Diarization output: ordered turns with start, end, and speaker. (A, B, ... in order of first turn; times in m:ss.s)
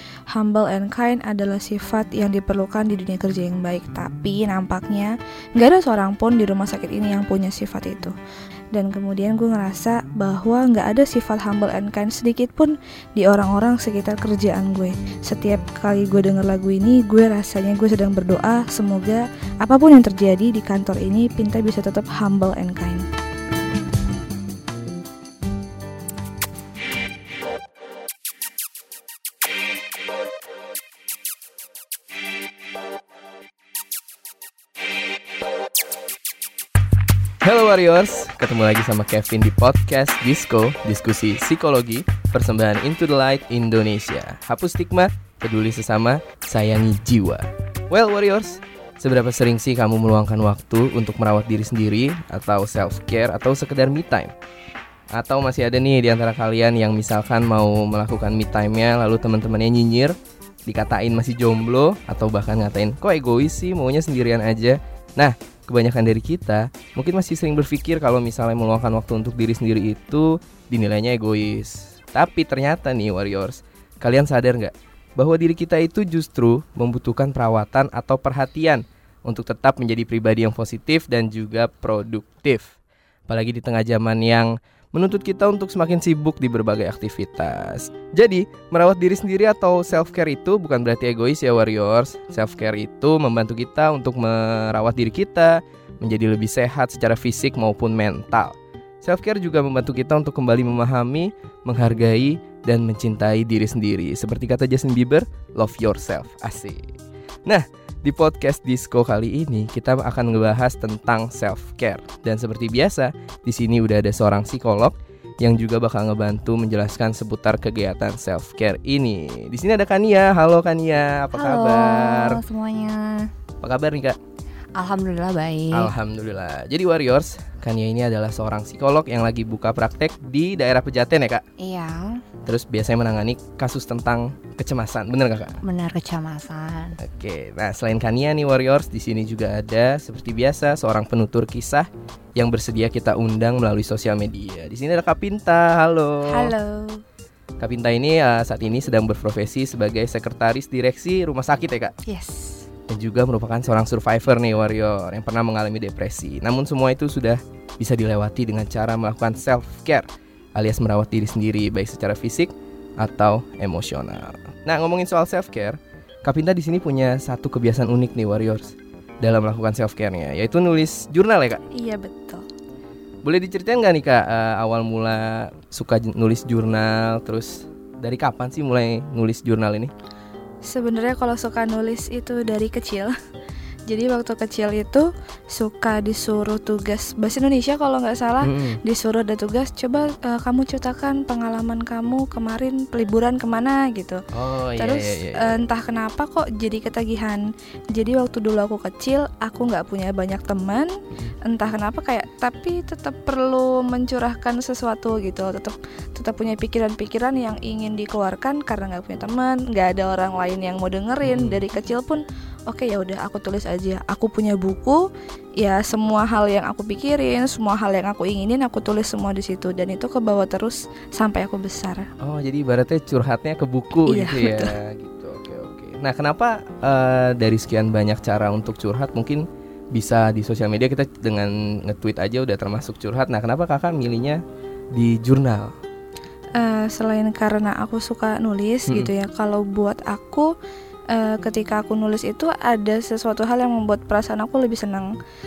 0:00.3-0:08.1 A
0:08.7-0:23.0 A
0:37.4-0:54.3 B
0:55.1-1:22.8 B
1:23.3-2:02.4 B
2:01.3-2:03.3 C
2:03.6-2:04.2 B
2:04.8-2:05.9 C
2:05.7-2:11.4 B
2:11.6-2:12.2 C
2:12.4-2:15.6 B
2:15.6-2:17.0 C
2:17.0-2:26.6 B
2:26.3-2:27.0 C
2:27.6-2:32.0 B
2:32.0-2:32.7 C
2:32.9-2:51.6 B
2:51.7-2:52.4 A
2:53.2-2:59.9 B
3:00.6-3:03.1 A
3:03.9-3:14.2 A
3:08.4-3:08.8 B
3:14.3-3:15.6 B
3:14.8-3:35.0 A
3:31.2-3:31.6 B
3:35.6-3:42.1 A
3:42.2-3:54.4 B
3:44.0-3:44.7 A
3:54.9-3:55.7 B
3:56.6-4:00.5 A
4:01.1-4:05.1 A